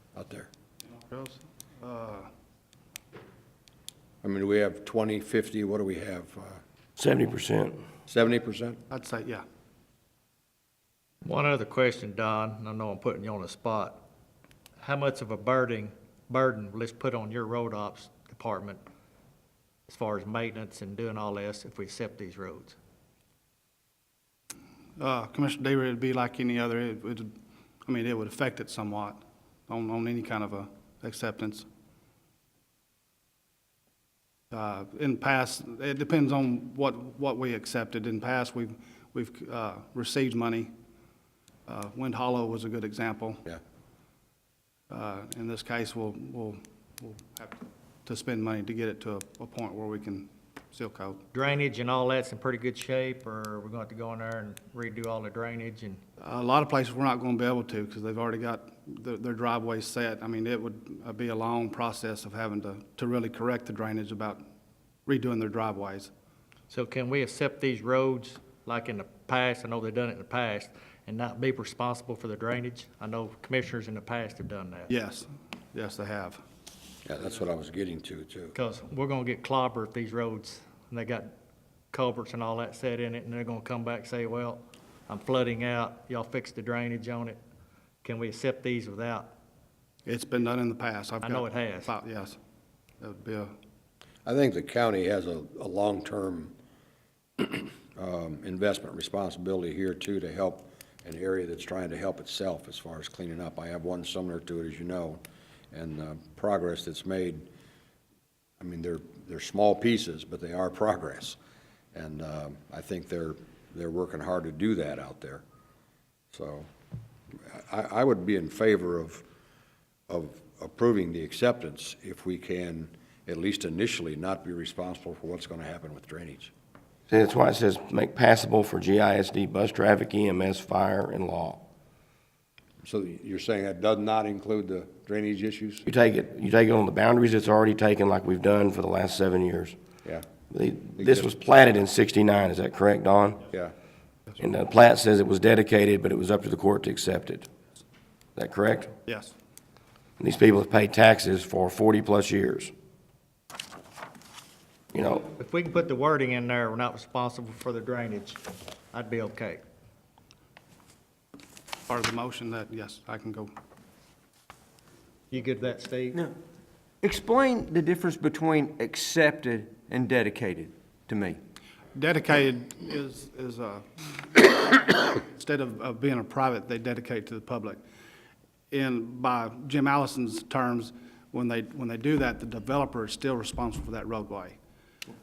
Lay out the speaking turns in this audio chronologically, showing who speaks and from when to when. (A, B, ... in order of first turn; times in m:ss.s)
0:00.1-0:00.5 A
0:01.0-0:02.3 B
0:04.2-0:06.6 A
0:07.0-0:07.8 C
0:08.1-0:08.8 A
0:08.9-0:09.4 B
0:11.2-0:14.0 D
0:14.8-0:18.8 D
0:19.9-0:22.8 D
0:25.0-0:27.3 B
0:27.8-0:31.6 B
0:34.5-0:40.7 B
0:41.7-0:43.4 B
0:44.9-0:51.2 B
0:51.3-0:56.0 D
0:56.2-1:04.4 B
1:05.0-1:06.1 B
1:06.7-1:14.9 D
1:14.9-1:16.4 B
1:17.0-1:18.6 A
1:18.5-1:21.3 D
1:21.9-1:27.4 D
1:28.0-1:29.3 D
1:30.0-1:32.4 B
1:31.2-1:31.9 D
1:33.0-1:33.5 B
1:34.2-1:36.5 A
1:37.4-1:45.2 A
1:45.7-1:47.5 A
1:48.6-1:51.4 A
1:51.9-1:55.4 A
1:56.3-1:56.7 A
1:57.5-1:59.2 A
2:00.1-2:06.5 A
2:07.1-2:11.6 C
2:12.8-2:15.8 A
2:15.8-2:19.8 C
2:20.5-2:23.4 C
2:21.0-2:21.3 A
2:24.4-2:27.5 C
2:28.4-2:28.9 C
2:29.1-2:29.3 B
2:30.2-2:32.7 C
2:34.9-2:35.3 C
2:35.4-2:39.6 D
2:41.9-2:43.5 B
2:45.3-2:46.2 D
2:47.0-2:51.4 E
2:51.9-2:57.8 B
2:58.7-3:04.6 B